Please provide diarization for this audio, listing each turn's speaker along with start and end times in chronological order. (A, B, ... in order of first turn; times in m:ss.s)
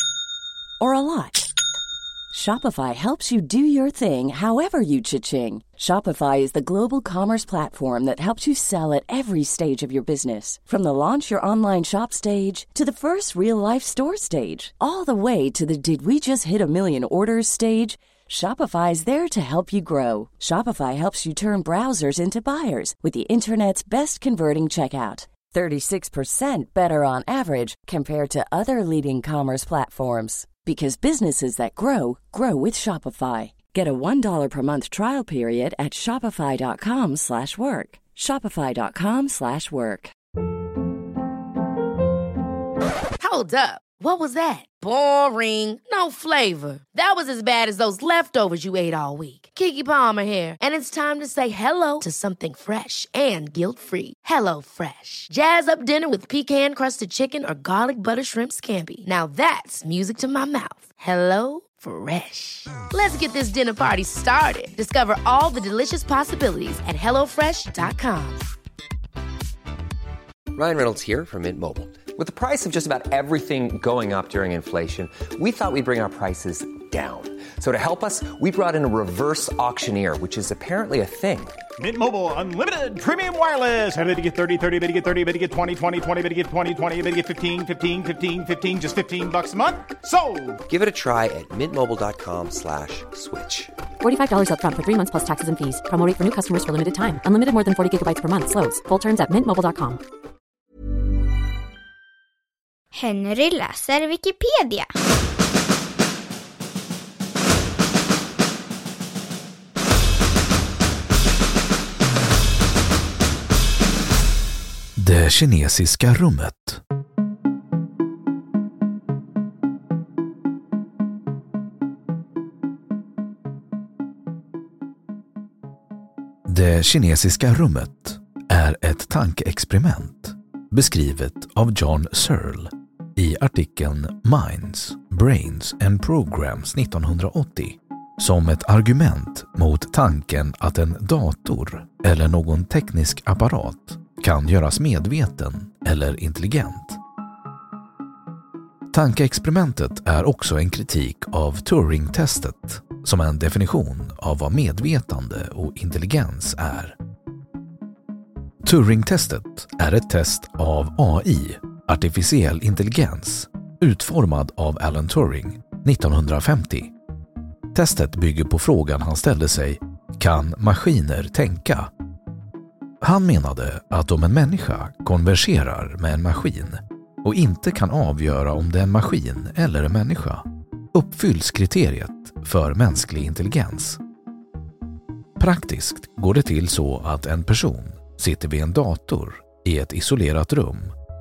0:00.8-0:01.5 A
0:02.3-0:40.1 A
0:43.2-1:08.4 B
1:10.5-1:21.6 C
1:21.8-1:30.5 D
1:30.7-1:33.7 C
1:34.0-1:40.0 E
1:42.9-1:44.9 F
1:55.0-1:56.8 G
2:06.5-2:27.0 G
2:28.9-2:37.0 G
2:38.6-2:46.9 G
2:47.7-2:51.9 G
2:53.0-3:04.0 G
3:05.4-3:10.9 G